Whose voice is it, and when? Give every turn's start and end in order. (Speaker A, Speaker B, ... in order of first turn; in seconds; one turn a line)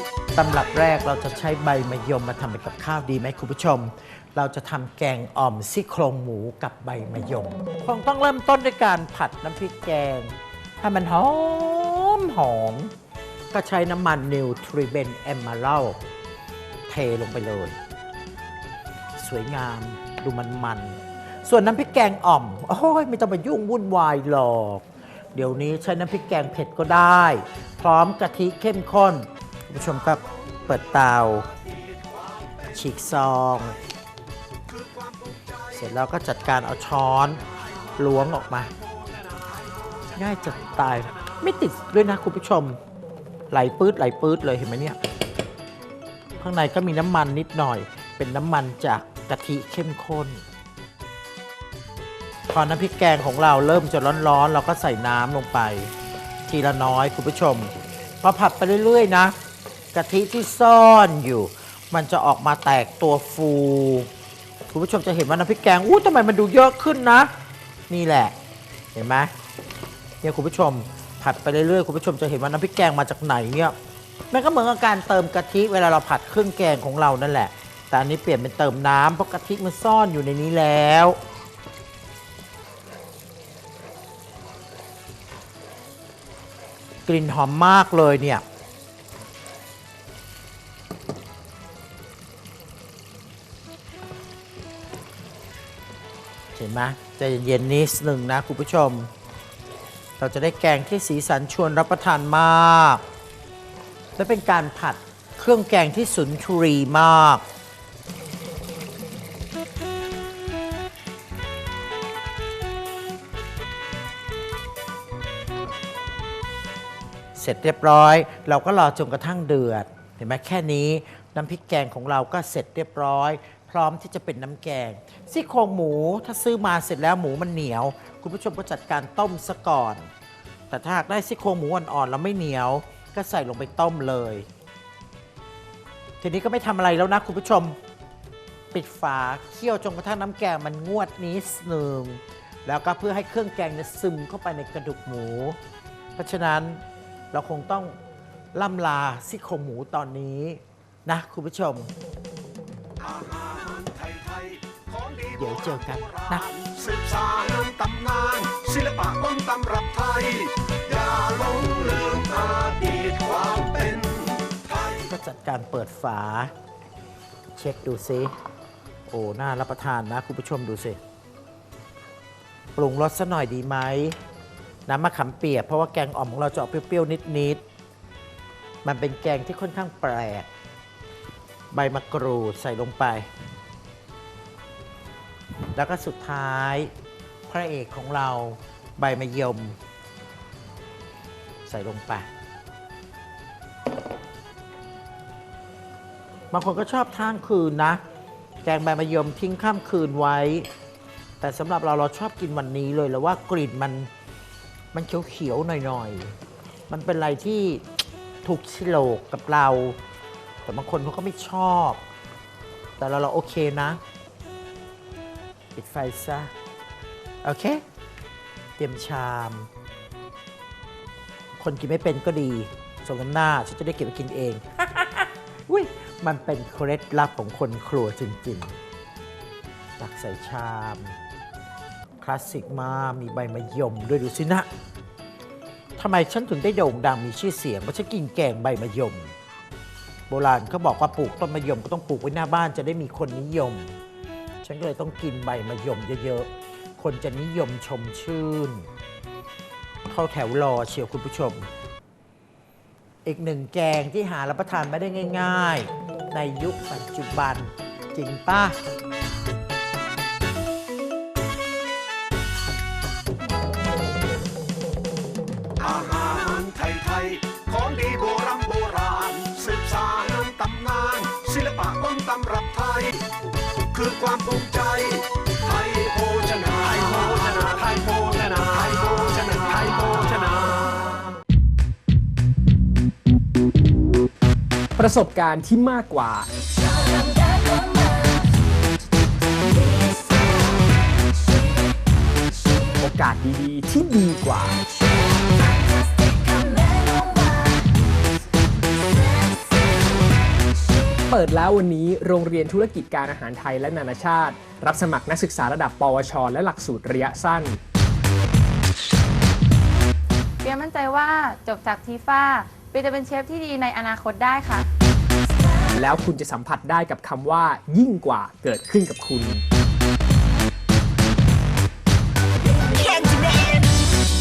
Speaker A: 0.3-12.9
Speaker A: 13.5-16.0
Speaker A: 16.9-17.8
Speaker A: 19.2-31.5
Speaker B: 32.1-32.5
Speaker A: 32.6-33.8
Speaker B: 34.7-35.6
Speaker A: 35.6-37.4
Speaker A: 38.0-38.7
Speaker A: 40.1-42.8
Speaker A: 43.5-45.0
Speaker A: 46.4-50.4
Speaker A: 52.5-55.9
Speaker A: 56.5-59.3
Speaker A: 59.9-64.1
Speaker A: 64.7-67.3
Speaker A: 67.9-68.3
Speaker A: 68.9-69.3
Speaker A: 70.2-73.7
Speaker A: 74.3-81.2
Speaker A: 87.0-88.4
Speaker A: 96.5-99.1
Speaker A: 100.2-103.0
Speaker A: 104.2-107.4
Speaker A: 117.3-130.1
Speaker A: 130.7-134.5
Speaker A: 136.2-137.8
Speaker A: 138.7-145.6
Speaker A: 146.2-147.9
Speaker A: 148.5-151.9
Speaker B: 153.0-165.0
Speaker A: 155.3-156.5
Speaker A: 165.0-166.5
Speaker A: 167.5-168.3
Speaker A: 169.1-171.0
Speaker A: 172.8-174.2
Speaker A: 174.8-177.6
Speaker A: 178.8-180.5
Speaker A: 181.7-183.3
Speaker A: 185.7-186.9
Speaker A: 187.5-189.8
Speaker A: 191.7-192.2
Speaker A: 196.5-198.0
Speaker A: 198.6-200.7
Speaker A: 201.4-204.1
Speaker A: 204.9-206.3
Speaker A: 206.9-207.8
Speaker A: 208.4-210.0
Speaker A: 210.7-212.0
Speaker A: 213.0-214.0
Speaker A: 215.7-216.5
Speaker A: 217.4-217.8
Speaker A: 218.8-219.7
Speaker A: 221.6-228.7
Speaker A: 230.0-231.2
Speaker A: 232.2-234.7
Speaker A: 236.0-239.3
Speaker A: 240.3-243.9
Speaker A: 244.6-248.9
Speaker A: 250.1-251.7
Speaker A: 253.2-258.8
Speaker B: 265.8-273.2
Speaker B: 273.9-281.0
Speaker C: 284.9-286.5
Speaker D: 287.1-288.5
Speaker D: 289.9-290.6
Speaker C: 292.9-295.1
Speaker D: 295.5-297.8
Speaker D: 299.2-299.9
Speaker C: 301.1-307.8
Speaker D: 310.6-314.9
Speaker C: 315.9-319.6
Speaker D: 322.9-323.9